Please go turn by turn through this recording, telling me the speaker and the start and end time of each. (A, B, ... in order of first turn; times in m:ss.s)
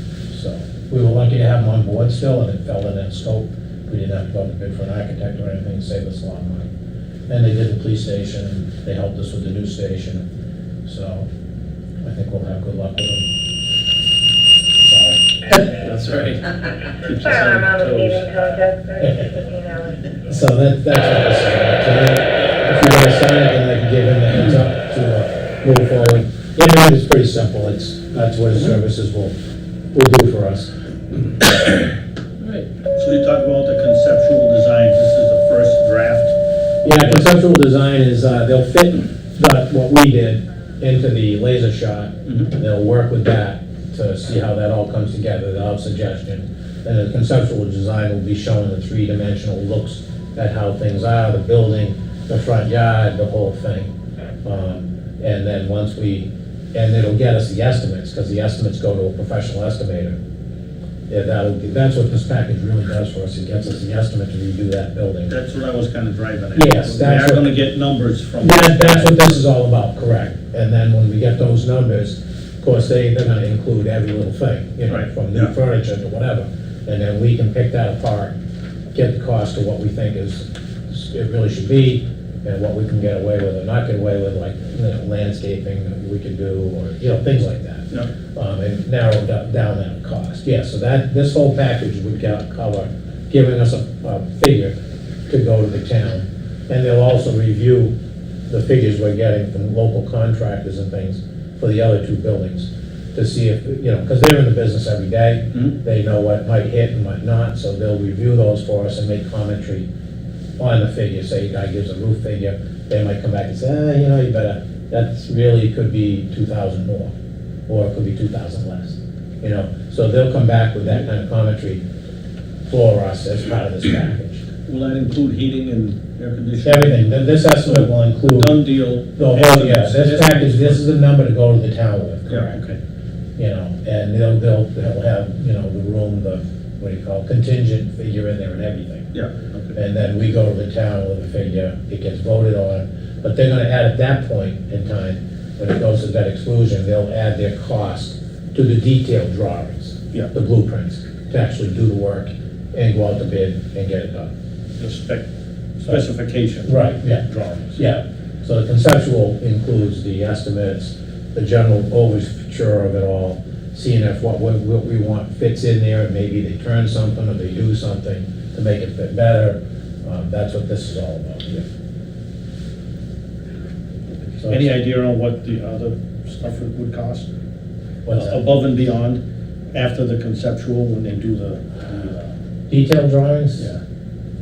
0:00.3-0:06.7 A
0:07.3-0:10.2 A
0:10.8-0:11.3 A
0:12.0-0:13.3 A
0:14.8-0:15.2 A
0:15.5-0:18.3 B
0:17.4-0:19.9 C
0:19.1-0:19.3 A
0:20.3-0:29.3 A
0:29.9-0:30.7 A
0:32.4-0:32.7 B
0:33.0-0:37.3 D
0:36.8-0:53.9 A
0:42.3-0:42.5 D
0:54.4-1:00.2 A
1:01.1-1:05.3 A
1:05.3-1:09.2 D
1:06.6-1:07.5 A
1:08.4-1:18.4 A
1:14.9-1:15.5 D
1:18.9-1:34.7 A
1:35.3-1:38.0 A
1:38.5-1:49.9 A
1:50.6-1:57.1 A
1:57.7-2:01.8 A
2:02.7-2:04.4 A
2:04.7-2:07.1 D
2:06.6-2:12.6 A
2:07.6-2:10.8 D
2:12.3-2:12.8 D
2:13.4-2:19.1 A
2:19.1-2:19.8 D
2:19.8-2:34.3 A
2:34.8-2:35.3 D
2:35.8-2:37.8 D
2:36.7-2:51.7 A
2:54.4-2:54.7 A
2:54.4-2:57.3 D
2:58.0-2:58.4 A
2:58.1-2:59.2 D
2:59.7-3:02.3 D
3:02.7-3:03.7 A